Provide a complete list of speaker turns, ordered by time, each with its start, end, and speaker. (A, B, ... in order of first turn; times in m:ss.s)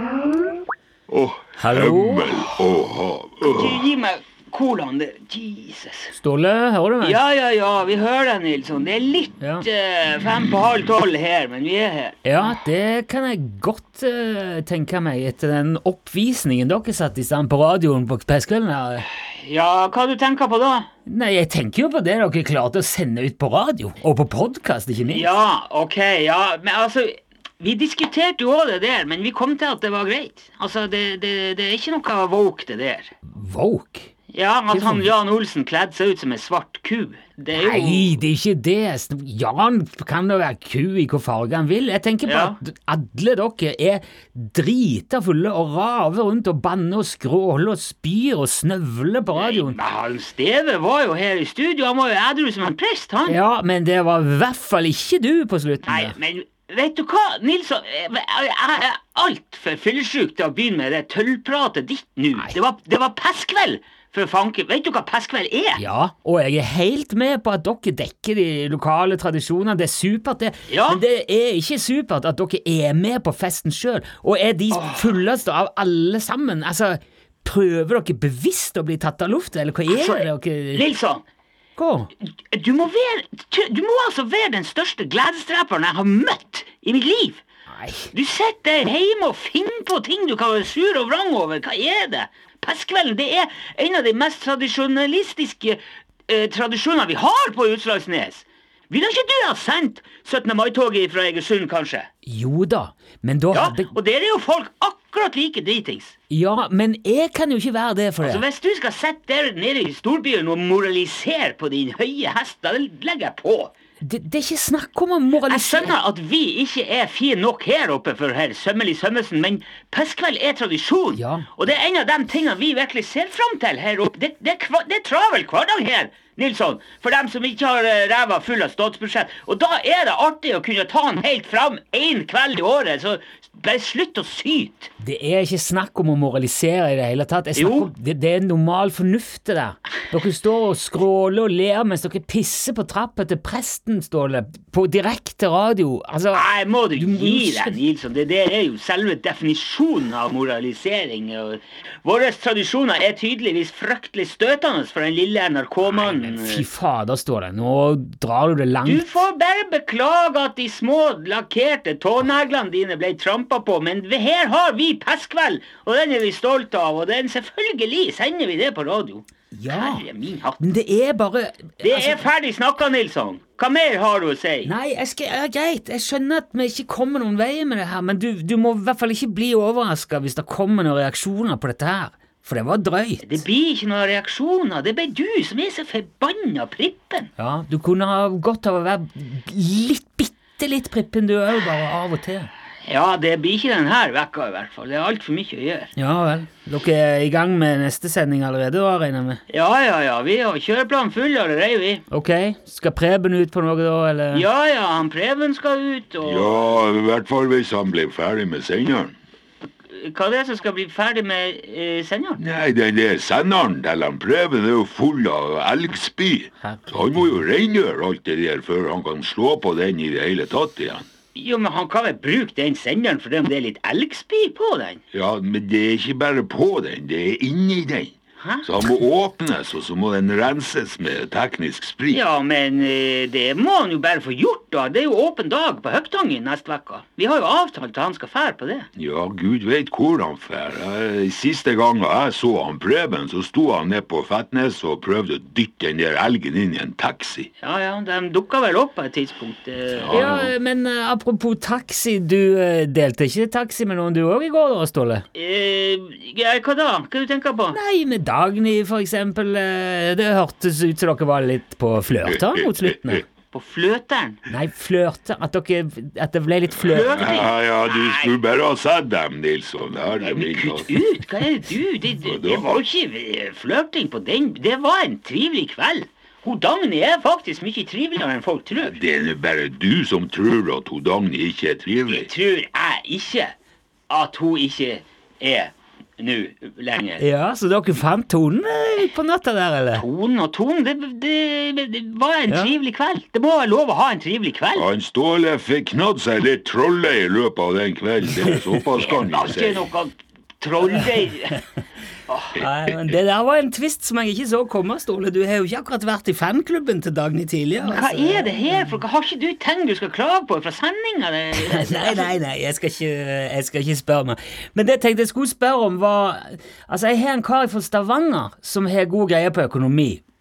0:01.1-0:03.8 A
0:01.6-0:02.5 B
0:03.4-0:06.2 C
0:06.2-0:07.2 B
0:07.0-0:12.2 C
0:12.2-0:19.0 B
0:19.0-0:20.9 C
0:21.0-0:25.3 B
0:25.1-0:33.1 C
0:33.3-0:34.1 B
0:34.3-0:38.1 C
0:34.7-0:35.1 B
0:37.6-0:49.8 B
0:42.2-0:42.6 C
0:49.3-0:53.4 C
0:53.3-0:56.2 B
0:55.9-1:05.8 C
1:05.8-1:20.8 B
1:10.7-1:11.0 C
1:14.7-1:15.2 C
1:19.9-1:21.2 C
1:21.8-1:22.1 B
1:22.4-1:27.4 C
1:27.7-1:28.1 B
1:28.1-1:42.1 C
1:42.2-1:43.9 B
1:43.5-1:46.2 C
1:46.3-1:48.4 B
1:48.2-1:53.7 C
1:54.0-1:55.9 B
1:55.4-2:14.9 C
2:01.1-2:01.5 B
2:15.0-2:27.8 B
2:17.6-2:17.9 C
2:26.3-2:36.6 C
2:35.8-2:39.1 B
2:38.8-2:50.6 C
2:49.5-2:50.0 B
2:50.6-2:52.3 B
2:51.8-2:54.7 C
2:54.6-3:03.4 B
3:03.2-3:07.3 C
3:07.4-3:12.5 B
3:12.8-3:15.9 C
3:16.0-3:19.4 B
3:19.5-3:22.0 C
3:22.1-3:24.4 B
3:24.3-3:26.8 C
3:26.2-3:29.2 A
3:29.9-3:32.4 C
3:32.4-3:41.1 A
3:36.6-3:37.3 B
3:41.3-3:45.0 C
3:45.1-3:52.2 A
3:48.4-3:48.7 C
3:52.1-3:58.9 C
3:59.0-4:07.5 A
4:07.6-4:10.3 C
4:09.9-4:10.5 A
4:10.1-4:15.2 B
4:15.3-4:17.8 C
4:17.7-4:23.2 B
4:22.3-4:23.2 A
4:23.5-4:24.4 C
4:24.5-4:27.3 B
4:26.8-4:31.0 A
4:26.9-4:28.4 C
4:30.2-4:39.0 C
4:32.2-4:32.8 A
4:38.8-4:42.3 A
4:42.1-4:43.5 C
4:44.1-4:47.2 C
4:47.2-4:50.0 B
4:49.9-4:54.8 C
4:54.8-4:59.9 A
4:58.4-4:58.8 B
4:58.9-5:01.6 C
5:02.3-5:02.5 C
5:02.6-5:09.0 B
5:07.8-5:12.3 C
5:11.6-5:20.2 B